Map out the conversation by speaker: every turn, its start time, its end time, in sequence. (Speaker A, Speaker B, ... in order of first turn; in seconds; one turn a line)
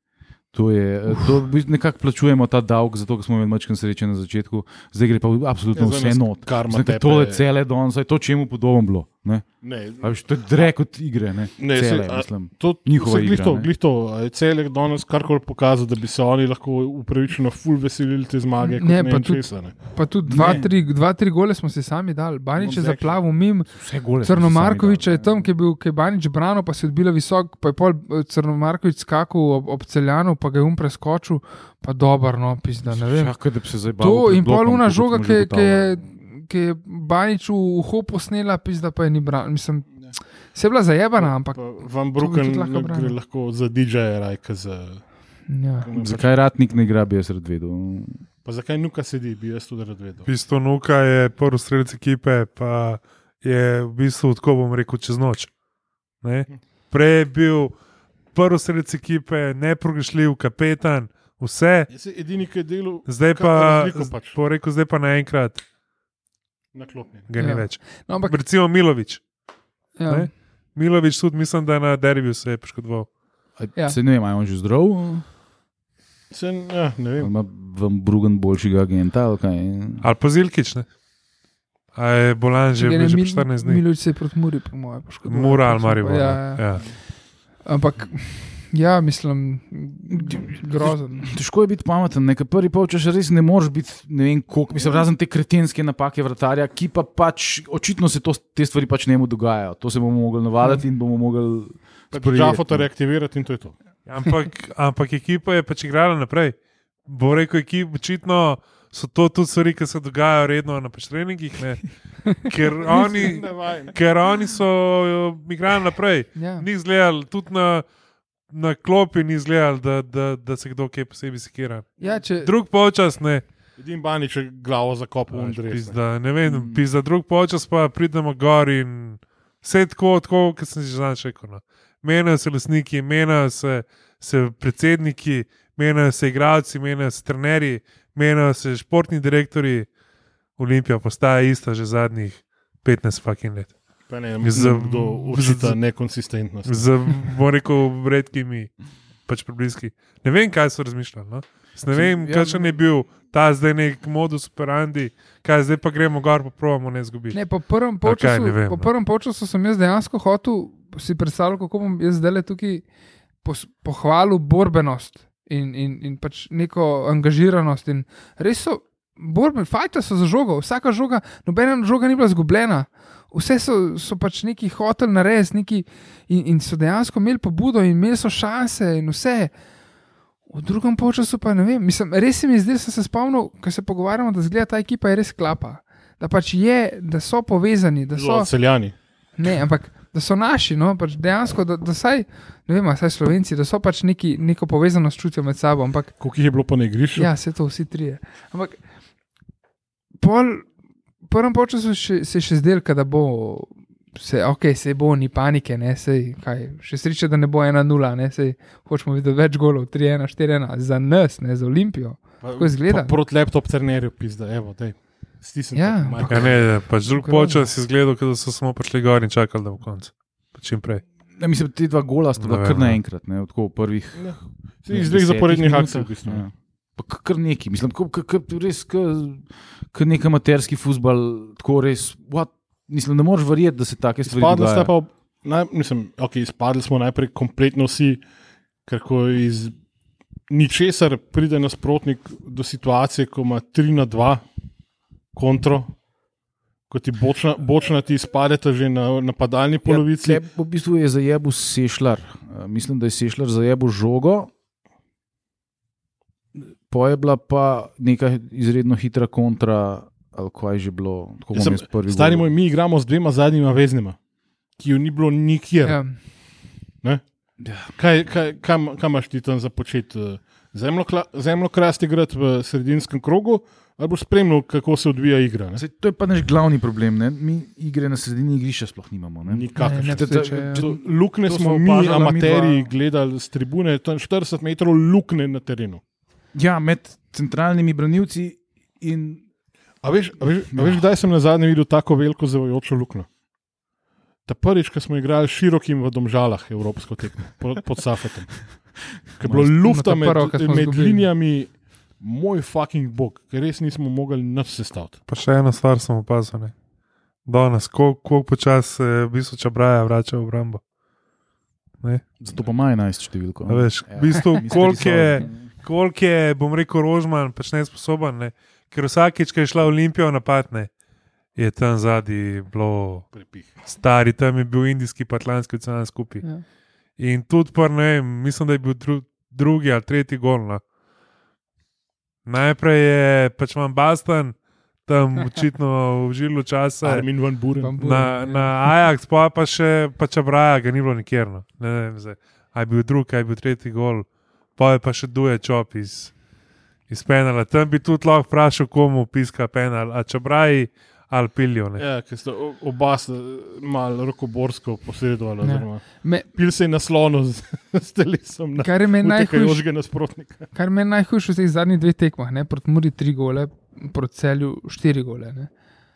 Speaker A: 0.5-13.7
Speaker B: 5.7-7.4
Speaker B: 9.6-10.6
Speaker B: 11.6-19.8
Speaker C: 18.6-43.1
Speaker A: 20.2-20.8
Speaker B: 20.3-20.6
Speaker B: 22.6-23.1
Speaker A: 22.7-22.9
Speaker A: 23.7-25.1
Speaker A: 32.8-36.1
Speaker B: 41.2-45.1
Speaker C: 45.5-45.9
Speaker B: 45.8-46.4
Speaker A: 46.0-48.2
Speaker B: 48.4-50.3
Speaker D: 50.2-55.5
Speaker D: 56.2-57.7
Speaker D: 58.3-61.9
Speaker B: 61.9-64.4
Speaker D: 63.0-65.6
Speaker B: 66.7-67.3
Speaker D: 67.3-69.2
Speaker C: 67.4-68.4
Speaker C: 70.0-70.3
Speaker D: 70.1-73.1
Speaker A: 73.6-75.2
Speaker B: 76.3-77.3
Speaker A: 77.2-80.1
Speaker D: 80.0-80.9
Speaker D: 81.9-83.8
Speaker C: 82.7-86.6
Speaker D: 85.2-86.8
Speaker C: 87.6-91.3
Speaker A: 90.1-102.9
Speaker B: 102.1-103.8
Speaker D: 104.0-106.5
Speaker D: 107.0-117.8
Speaker C: 112.9-113.3
Speaker B: 112.9-114.0
Speaker C: 116.3-116.7
Speaker D: 118.5-123.4
Speaker C: 122.0-122.5
Speaker B: 123.8-126.0
Speaker D: 125.3-139.9
Speaker A: 126.4-126.8
Speaker D: 140.6-143.7
Speaker B: 144.1-146.9
Speaker D: 144.4-145.8
Speaker D: 146.7-148.7
Speaker D: 149.3-157.4
Speaker A: 151.9-152.8
Speaker C: 157.3-162.8
Speaker D: 158.0-158.9
Speaker C: 163.4-179.5
Speaker C: 180.5-188.5
Speaker B: 188.1-188.9
Speaker C: 189.3-196.2
Speaker B: 196.2-197.3
Speaker C: 197.2-198.8
Speaker C: 200.2-200.7
Speaker C: 201.2-213.1
Speaker B: 212.4-216.8
Speaker C: 215.7-217.7
Speaker D: 216.3-221.0
Speaker A: 221.3-234.9
Speaker D: 222.4-223.0
Speaker B: 224.1-226.5
Speaker B: 234.2-238.2
Speaker B: 238.8-239.7
Speaker B: 240.5-244.4
Speaker B: 245.3-245.9
Speaker B: 246.9-250.4
Speaker A: 249.8-254.5
Speaker A: 256.6-262.4
Speaker B: 261.5-264.2
Speaker B: 264.8-266.0
Speaker C: 265.8-266.2
Speaker A: 267.6-267.9
Speaker B: 267.9-275.8
Speaker A: 275.8-282.9
Speaker B: 279.4-286.0
Speaker C: 279.8-280.9
Speaker A: 286.5-289.4
Speaker B: 290.0-293.3
Speaker A: 290.7-291.0
Speaker B: 294.4-298.6
Speaker B: 299.3-305.1
Speaker A: 299.4-299.7
Speaker C: 299.7-301.3
Speaker D: 305.3-306.7
Speaker D: 307.4-310.8
Speaker A: 312.4-315.7
Speaker D: 313.7-320.9
Speaker D: 321.6-323.3
Speaker B: 323.3-323.7
Speaker D: 323.8-326.4
Speaker D: 327.2-330.8
Speaker D: 332.4-337.2
Speaker B: 337.0-337.9
Speaker C: 337.8-338.9
Speaker D: 338.0-346.3
Speaker D: 347.1-352.0
Speaker B: 352.0-360.7
Speaker C: 355.6-356.5
Speaker C: 358.8-359.8
Speaker C: 360.7-365.7